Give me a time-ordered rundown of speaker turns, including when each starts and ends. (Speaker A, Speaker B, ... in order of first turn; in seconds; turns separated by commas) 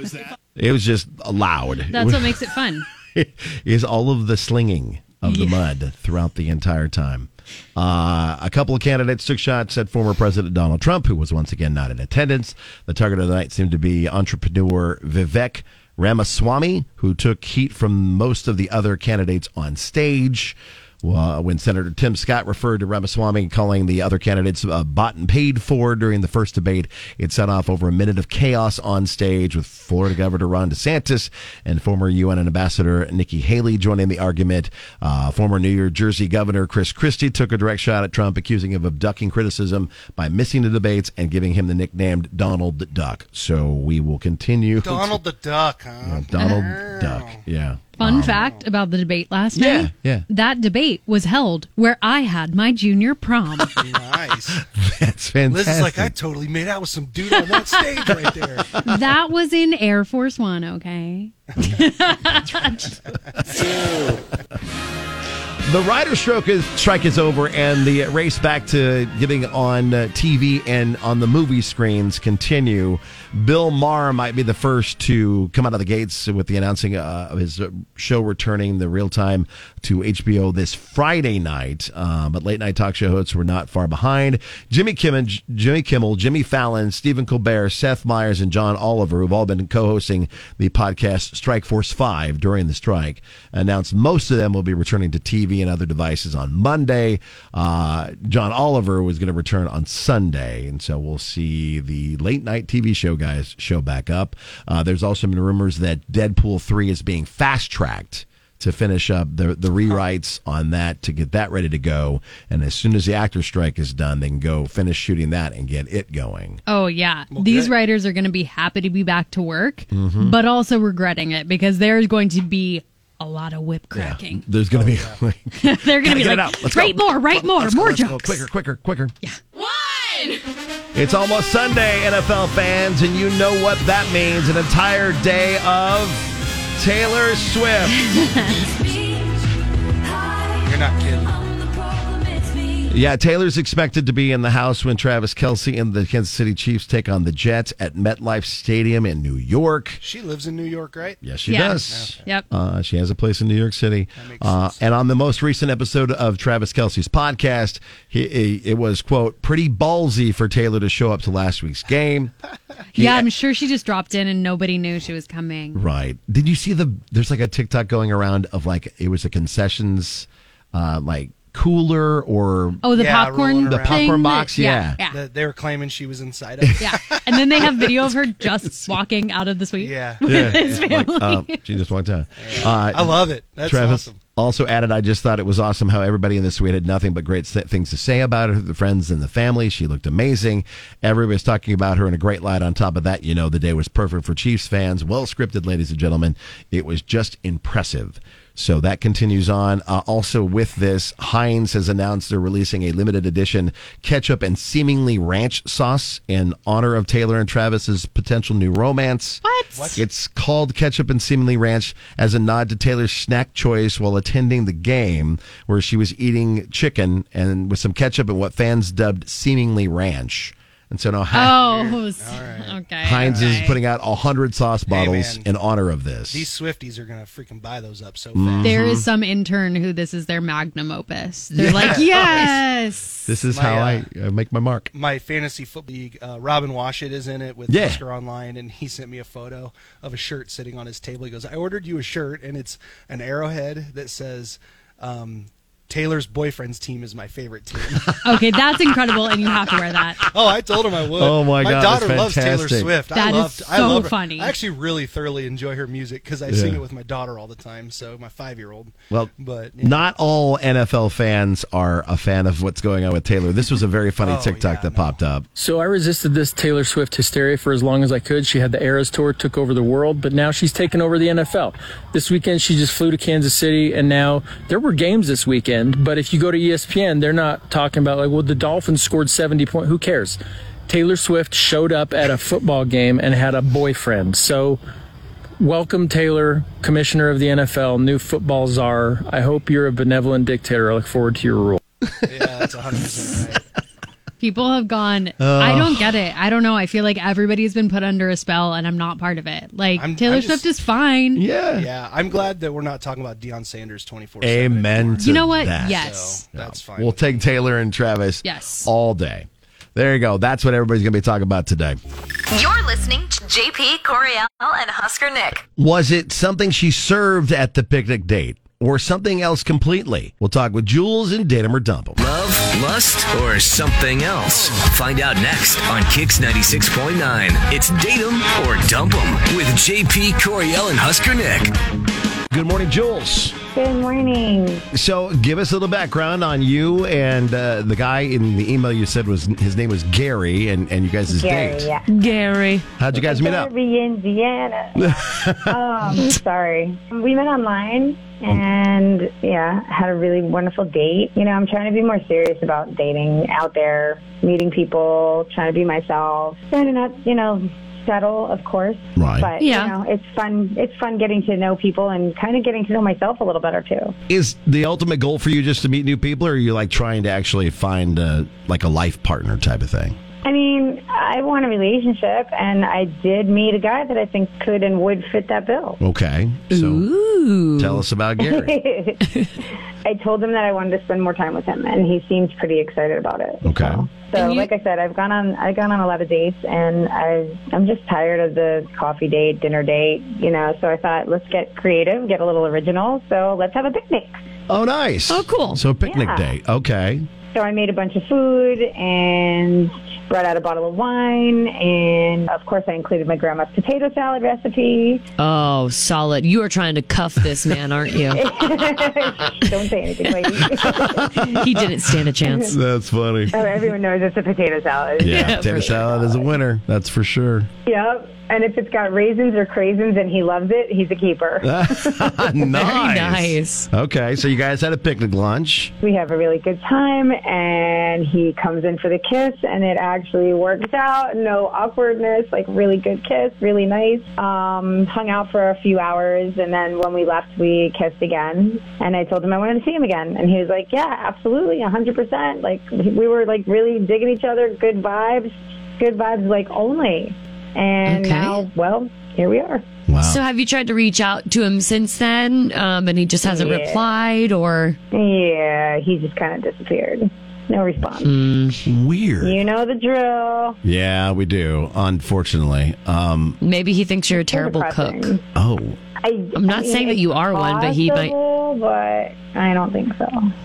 Speaker A: 0.6-2.5, Speaker B: 1.9-2.9, Speaker A: 3.1-45.2, Speaker B: 5.3-5.6, Speaker C: 44.8-47.4, Speaker A: 46.0-48.4, Speaker B: 46.4-46.7, Speaker B: 48.0-53.8, Speaker C: 48.3-48.6, Speaker A: 49.5-50.2, Speaker C: 53.8-54.6, Speaker A: 54.6-56.1, Speaker C: 55.5-58.8, Speaker B: 58.8-63.6, Speaker A: 65.7-116.6, Speaker B: 116.7-124.5, Speaker C: 117.3-117.7, Speaker A: 119.9-120.4, Speaker A: 123.9-129.1, Speaker C: 124.7-125.2, Speaker B: 125.6-128.4, Speaker A: 130.9-138.1, Speaker B: 138.1-138.6, Speaker C: 140.6-141.4, Speaker A: 142.9-150.0, Speaker C: 150.0-151.2, Speaker A: 151.2-162.3, Speaker B: 151.5-152.4, Speaker C: 151.8-152.2, Speaker C: 154.2-154.8, Speaker A: 162.9-163.3, Speaker B: 162.9-165.8, Speaker A: 165.7-172.9, Speaker B: 172.8-175.2, Speaker C: 172.9-174.2, Speaker A: 173.7-175.0, Speaker C: 175.1-177.8, Speaker B: 176.8-181.6, Speaker C: 179.8-180.9, Speaker A: 180.2-209.4, Speaker C: 182.4-184.2, Speaker B: 209.4-210.0, Speaker C: 209.8-210.0, Speaker A: 209.9-221.6, Speaker B: 221.3-223.8, Speaker C: 221.5-223.6, Speaker A: 223.0-226.5, Speaker C: 224.9-225.5, Speaker C: 226.3-228.8, Speaker A: 228.3-229.1, Speaker B: 228.6-233.3, Speaker A: 231.5-232.6, Speaker C: 231.7-232.5, Speaker A: 233.3-234.9, Speaker C: 233.5-234.1, Speaker C: 234.9-248.2, Speaker A: 237.7-238.0, Speaker A: 248.1-248.6, Speaker B: 248.2-250.2, Speaker C: 250.3-260.0, Speaker A: 251.0-253.0, Speaker B: 253.1-254.5, Speaker A: 256.5-256.8, Speaker A: 259.1-265.5, Speaker C: 264.2-265.1, Speaker D: 265.6-284.8, Speaker D: 285.6-291.8, Speaker C: 292.3-293.6, Speaker B: 294.4-301.4, Speaker A: 295.4-296.2, Speaker C: 300.0-300.7, Speaker A: 301.4-301.9, Speaker C: 301.8-307.2, Speaker A: 304.4-312.0, Speaker B: 305.2-306.4, Speaker B: 308.4-308.9, Speaker E: 312.5-315.6, Speaker A: 315.8-322.2, Speaker F: 322.2-331.7, Speaker A: 332.5-333.6, Speaker G: 333.7-334.9, Speaker A: 334.9-341.9, Speaker G: 341.3-342.1, Speaker H: 342.1-342.9, Speaker A: 343.0-343.7, Speaker G: 343.1-364.1, Speaker A: 345.0-345.8, Speaker A: 359.2-359.5, Speaker H: 359.6-359.9, Speaker A: 364.3-370.2, Speaker G: 370.4-376.0, Speaker A: 376.0-377.1, Speaker H: 376.7-378.0, Speaker A: 377.8-378.8, Speaker G: 378.4-379.3, Speaker G: 380.1-394.4, Speaker A: 383.6-384.1, Speaker H: 384.3-384.7, Speaker A: 394.7-397.3, Speaker H: 395.3-395.8, Speaker G: 396.1-396.5, Speaker G: 397.5-405.2, Speaker H: 405.4-408.4, Speaker G: 408.3-411.5, Speaker A: 410.6-413.6, Speaker H: 411.5-412.8, Speaker G: 413.5-416.4, Speaker A: 415.2-417.7, Speaker H: 415.2-416.1, Speaker G: 417.9-422.4, Speaker A: 421.6-425.9, Speaker H: 422.7-423.9, Speaker G: 426.0-449.9, Speaker H: 448.1-448.6, Speaker A: 450.1-450.4, Speaker H: 450.2-455.0, Speaker G: 453.4-454.0, Speaker G: 455.1-458.3, Speaker H: 458.2-458.8, Speaker A: 458.9-459.6, Speaker G: 459.4-460.8, Speaker A: 460.8-463.6, Speaker H: 463.6-465.3, Speaker G: 464.3-465.4, Speaker A: 465.6-466.0, Speaker G: 466.2-470.5, Speaker H: 466.6-468.3